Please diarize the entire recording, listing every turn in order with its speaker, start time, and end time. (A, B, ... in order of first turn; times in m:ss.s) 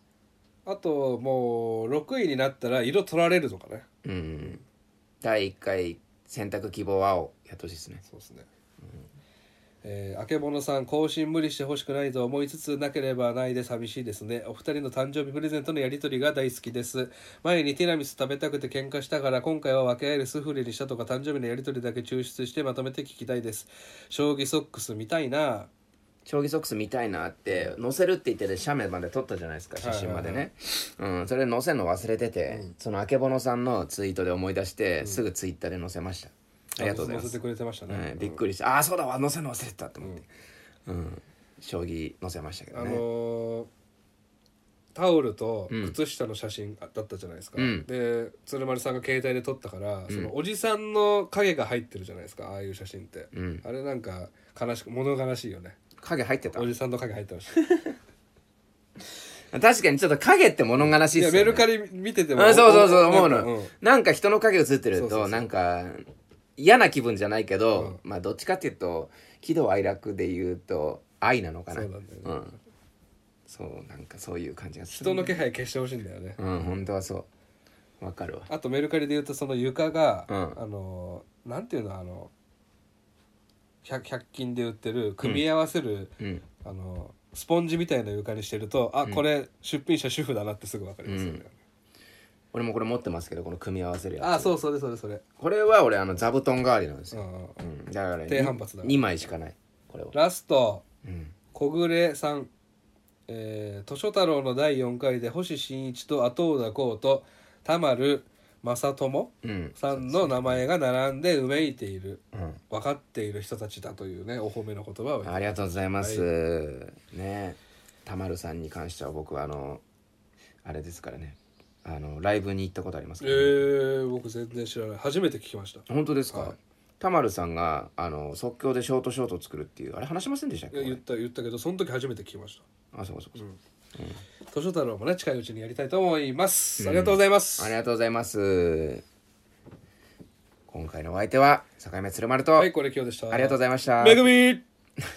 0:00.6-0:03.8 A
0:04.0-0:04.6 B
0:05.2-0:08.0 B
0:08.0-0:08.4 A
0:09.8-0:25.7 A
0:26.2-0:40.3 B
0:29.8-0:30.5 A
0:36.8-0:38.4 A
0:40.8-0:43.0 B
0:42.7-0:43.7 A
0:44.9-0:55.8 A
0:45.7-0:46.0 B
0:47.6-0:47.8 B
0:53.3-0:53.6 B
0:56.0-0:56.7 B
0:56.5-0:57.6 A
0:57.5-0:57.9 B
0:59.5-1:01.7 B
1:00.8-1:03.7 A
1:02.3-1:12.5 B
1:04.9-1:05.4 A
1:11.7-1:12.4 A
1:13.5-1:15.4 B
1:14.9-1:16.4 A
1:16.4-1:17.3 B
1:18.0-1:18.5 B
1:18.5-1:22.3 A
1:20.3-1:20.6 B
1:23.8-1:31.6 A
1:26.2-1:26.4 B
1:31.0-1:31.4 B
1:32.5-1:34.5 B
1:34.2-1:35.2 A
1:35.4-1:40.1 B
1:37.1-1:37.6 A
1:38.3-1:39.0 A
1:40.1-1:40.8 A
1:41.0-1:41.3 B
1:41.5-1:42.5 A
1:43.3-1:56.3 A
1:49.4-1:50.6 B
1:55.2-1:59.8 B
2:00.6-2:03.7 B
2:03.2-2:06.5 A
2:05.9-2:11.0 B
2:10.7-2:12.6 A
2:12.9-2:13.4 B
2:14.5-2:17.7 A
2:16.8-2:19.0 B
2:20.7-2:22.7 B
2:22.6-2:24.6 A
2:23.3-2:24.3 B